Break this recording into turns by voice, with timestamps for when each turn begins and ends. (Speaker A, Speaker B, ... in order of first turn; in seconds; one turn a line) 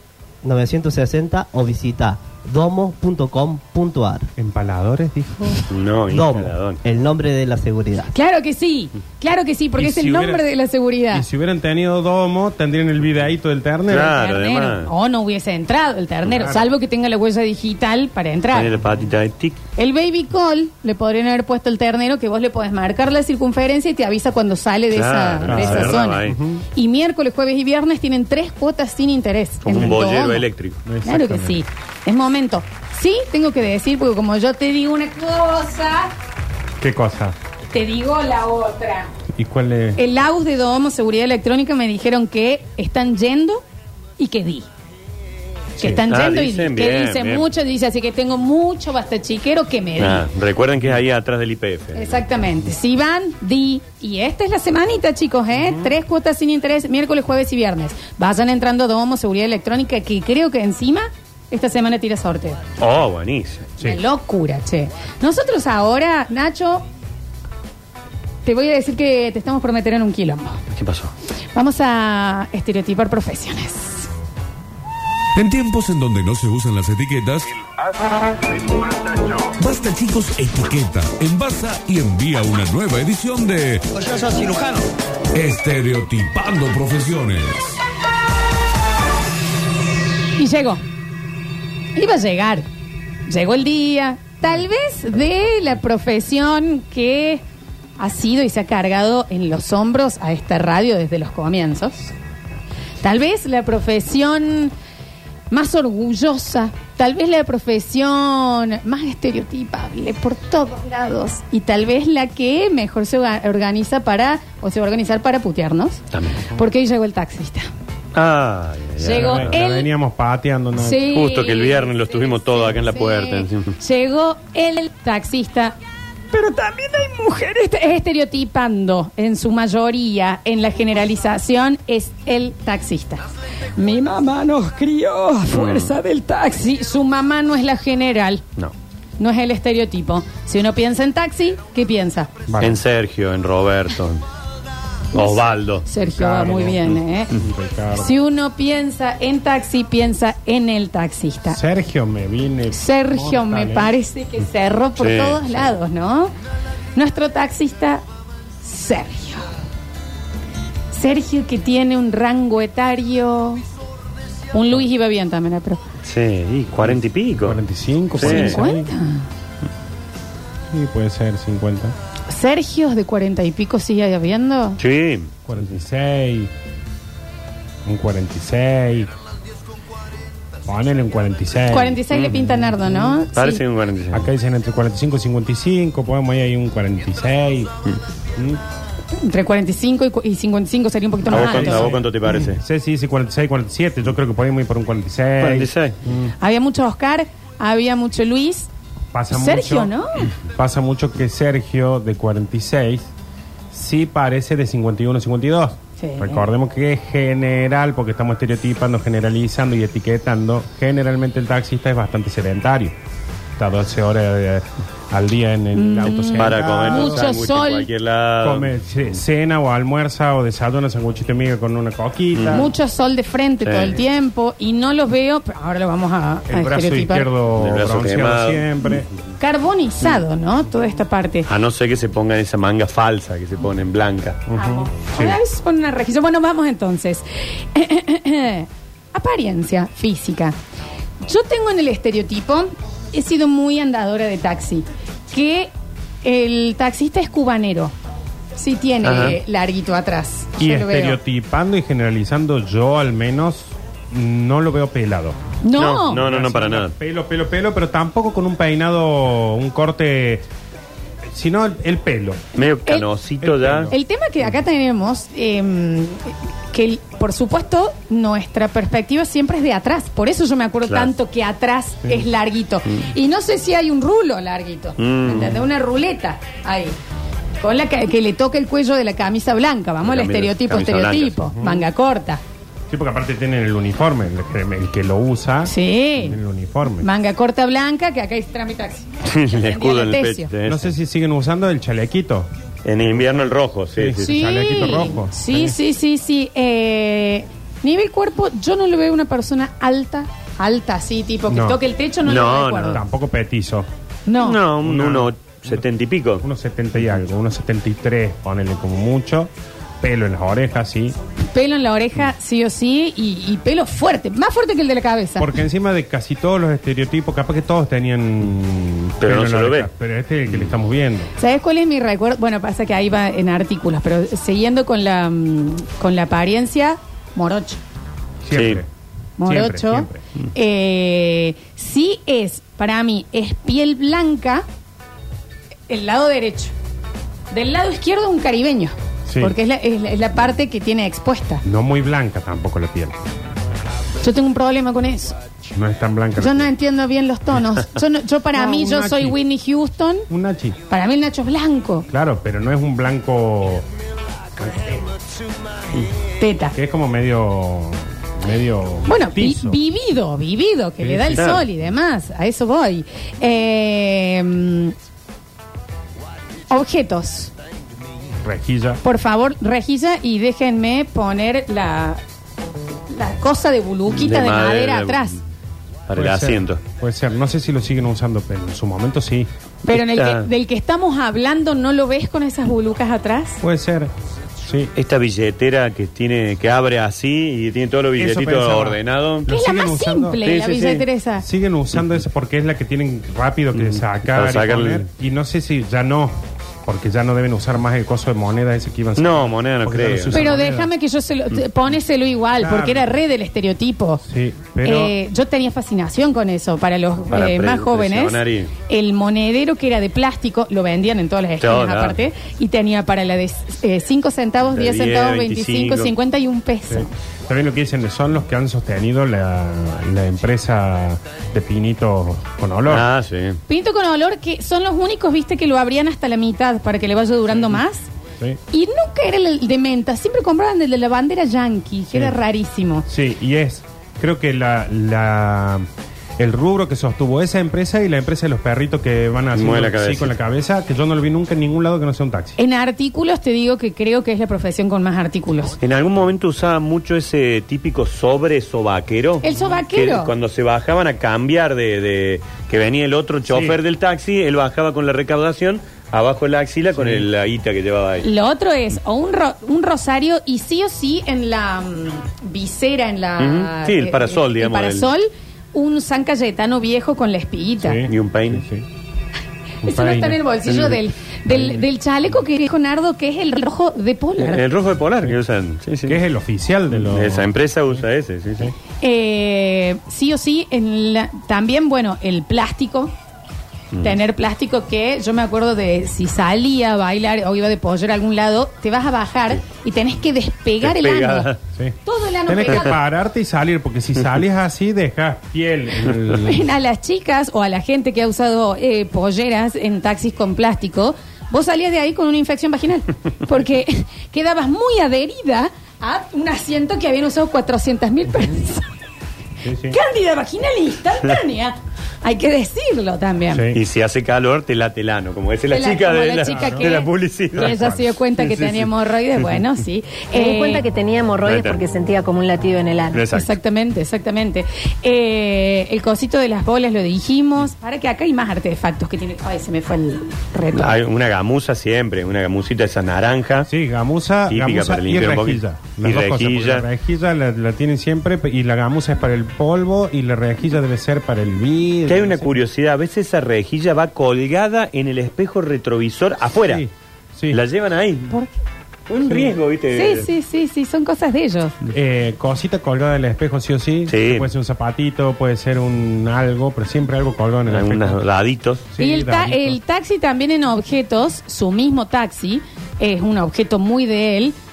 Speaker A: 0.4-4.3
Speaker B: 4.3-5.7
Speaker C: 5.7-6.8
Speaker A: 6.1-8.1
Speaker D: 8.1-11.2
Speaker B: 9.8-10.4
Speaker B: 11.1-14.2
Speaker C: 13.9-14.9
Speaker D: 14.0-18.7
Speaker B: 16.3-16.7
Speaker C: 18.5-19.6
Speaker D: 19.8-26.2
Speaker C: 24.9-26.4
Speaker B: 25.4-26.6
Speaker D: 26.7-30.5
Speaker C: 29.6-30.8
Speaker B: 30.8-31.6
Speaker D: 31.0-36.1
Speaker B: 36.8-37.4
Speaker D: 37.7-39.1
Speaker B: 39.3-40.0
Speaker D: 40.0-43.6
Speaker D: 44.2-44.7
Speaker D: 45.8-50.3
Speaker C: 45.9-47.5
Speaker C: 50.0-52.2
Speaker D: 51.9-62.6
Speaker C: 62.8-63.7
Speaker D: 63.8-66.8
Speaker D: 68.4-70.6
Speaker C: 70.7-71.1
Speaker D: 71.5-74.1
Speaker E: 75.3-77.6
Speaker E: 78.3-87.8
Speaker D: 90.3-90.8
Speaker D: 91.9-92.7
Speaker D: 93.3-97.4
Speaker D: 98.0-102.1
Speaker D: 103.0-104.7
Speaker D: 105.5-116.0
Speaker C: 116.1-116.5
Speaker D: 116.5-117.7
Speaker C: 118.1-119.5
Speaker D: 119.0-119.9
Speaker B: 119.1-121.1
Speaker D: 120.8-125.8
Speaker C: 121.1-123.8
Speaker D: 126.3-133.2
Speaker D: 133.7-138.4
Speaker C: 135.5-135.9
Speaker D: 139.2-142.3
Speaker B: 142.5-142.8
Speaker C: 142.6-144.2
Speaker D: 145.1-147.3
Speaker C: 145.1-145.8
Speaker B: 146.1-148.1
Speaker D: 147.9-151.6
Speaker B: 151.5-153.9
Speaker D: 152.7-156.3
Speaker C: 155.0-155.5
Speaker D: 156.9-158.0
Speaker D: 158.6-159.5
Speaker D: 160.9-163.6
Speaker D: 164.5-165.8
Speaker C: 166.0-167.6
Speaker B: 166.8-168.9
Speaker C: 168.1-168.6
Speaker D: 168.2-169.3
Speaker B: 170.7-171.9
Speaker D: 172.3-174.8
Speaker C: 174.8-175.3
Speaker B: 175.5-176.5
Speaker B: 177.8-179.1
Speaker B: 180.7-183.1
Speaker D: 181.7-183.6
Speaker C: 182.1-182.5
Speaker C: 183.3-184.3
Speaker B: 184.1-187.7
Speaker D: 189.1-192.0
Speaker B: 191.2-196.3
Speaker C: 191.3-192.6
Speaker C: 195.4-196.0
Speaker D: 196.4-198.7
Speaker B: 199.1-199.9
Speaker D: 199.3-200.3
Speaker B: 200.4-203.1
Speaker B: 203.7-212.9
Speaker D: 206.0-206.5
Speaker B: 213.6-217.3
Speaker D: 215.7-217.9
Speaker C: 216.1-218.7
Speaker B: 218.4-222.7
Speaker C: 222.3-222.7
Speaker D: 222.5-227.3
Speaker C: 223.6-224.0
Speaker B: 226.5-229.1
Speaker C: 227.6-228.9
Speaker D: 229.4-231.5
Speaker C: 231.5-234.4
Speaker B: 234.5-235.4
Speaker D: 234.6-240.5
Speaker D: 241.2-245.7
Speaker D: 246.2-247.9
Speaker D: 248.6-251.2
Speaker C: 249.0-249.4
Speaker B: 250.6-255.4
Speaker D: 255.6-256.2
Speaker C: 255.7-256.9
Speaker B: 256.2-260.4
Speaker B: 261.3-262.4
Speaker C: 262.5-263.9
Speaker B: 263.4-264.0
Speaker D: 263.9-277.0
Speaker C: 275.0-275.6
Speaker D: 277.6-282.4
Speaker C: 280.0-281.4
Speaker B: 281.6-281.9
Speaker B: 282.9-287.1
Speaker D: 285.6-286.4
Speaker D: 287.0-290.5
Speaker C: 289.2-290.9
Speaker B: 290.6-292.5
Speaker C: 292.8-294.9
Speaker B: 293.0-295.8
Speaker D: 294.2-303.0
Speaker B: 301.5-301.8
Speaker C: 302.2-303.0
Speaker B: 302.9-303.9
Speaker D: 304.2-304.6
Speaker C: 304.4-306.4
Speaker B: 304.8-305.8
Speaker B: 306.4-311.1
Speaker D: 311.5-315.5
Speaker B: 315.4-321.3
Speaker C: 319.2-319.9
Speaker C: 320.5-320.7
Speaker D: 321.4-327.8
Speaker B: 328.4-328.9
Speaker C: 328.5-328.8
Speaker D: 329.4-334.6
Speaker B: 329.4-330.2
Speaker D: 335.9-336.7
Speaker D: 337.5-341.6
Speaker B: 339.3-339.6
Speaker B: 341.6-343.2
Speaker D: 344.2-345.3
Speaker B: 345.7-346.7
Speaker D: 346.4-350.3
Speaker B: 348.5-349.4
Speaker B: 350.3-350.8
Speaker D: 350.9-352.1
Speaker B: 352.1-353.8
Speaker B: 354.6-355.1
Speaker D: 356.4-356.7
Speaker B: 356.7-359.8
Speaker D: 359.1-364.9
Speaker B: 361.0-361.7
Speaker D: 366.7-367.5
Speaker B: 368.4-369.0
Speaker D: 369.0-372.2
Speaker D: 373.1-375.4
Speaker C: 374.1-375.4
Speaker C: 376.1-376.8
Speaker B: 376.1-379.5
Speaker D: 379.8-383.6
Speaker C: 379.9-380.5
Speaker B: 383.6-384.1
Speaker B: 384.6-384.9
Speaker C: 384.9-389.5
Speaker B: 388.2-390.9
Speaker D: 389.5-391.4
Speaker C: 390.4-391.0
Speaker B: 391.4-400.9
Speaker C: 393.7-395.1
Speaker C: 399.1-400.5
Speaker D: 400.3-404.2
Speaker B: 402.6-403.1
Speaker B: 404.2-405.1
Speaker D: 404.8-417.1
Speaker C: 407.3-408.7
Speaker C: 411.6-412.2
Speaker C: 414.7-416.1
Speaker B: 416.9-423.1
Speaker C: 422.9-423.6
Speaker D: 423.7-428.1
Speaker D: 428.7-433.1
Speaker B: 433.1-435.9
Speaker B: 436.4-442.6
Speaker C: 439.5-440.3
Speaker D: 442.6-445.8
Speaker C: 445.8-458.3
Speaker D: 449.4-450.3
Speaker B: 453.5-453.8
Speaker B: 457.0-457.2
Speaker D: 458.2-468.0
Speaker C: 463.4-465.1
Speaker B: 467.8-468.9
Speaker C: 468.1-468.6
Speaker B: 469.8-470.4
Speaker D: 469.8-474.6
Speaker B: 471.5-471.8
Speaker C: 474.4-476.2
Speaker B: 476.1-478.0
Speaker C: 476.9-478.7
Speaker D: 479.0-483.1
Speaker D: 484.0-491.5
Speaker C: 490.8-491.6
Speaker B: 491.8-496.7
Speaker D: 492.0-493.0
Speaker D: 496.3-508.9
Speaker B: 509.6-510.0
Speaker D: 509.9-513.7
Speaker B: 513.5-513.8
Speaker C: 513.7-518.7
Speaker D: 515.7-520.9
Speaker B: 516.5-516.9
Speaker F: 520.3-523.2
Speaker C: 521.4-521.9
Speaker C: 523.1-523.5
Speaker D: 523.3-531.0
Speaker C: 530.7-533.7
Speaker B: 533.6-542.6
Speaker C: 534.5-536.8
Speaker C: 542.0-546.8
Speaker B: 546.5-547.6
Speaker C: 547.5-548.3
Speaker C: 549.1-550.3
Speaker D: 549.9-551.7
Speaker B: 551.9-558.2
Speaker C: 554.1-554.5
Speaker C: 557.7-558.9
Speaker B: 558.9-559.8
Speaker D: 559.0-564.5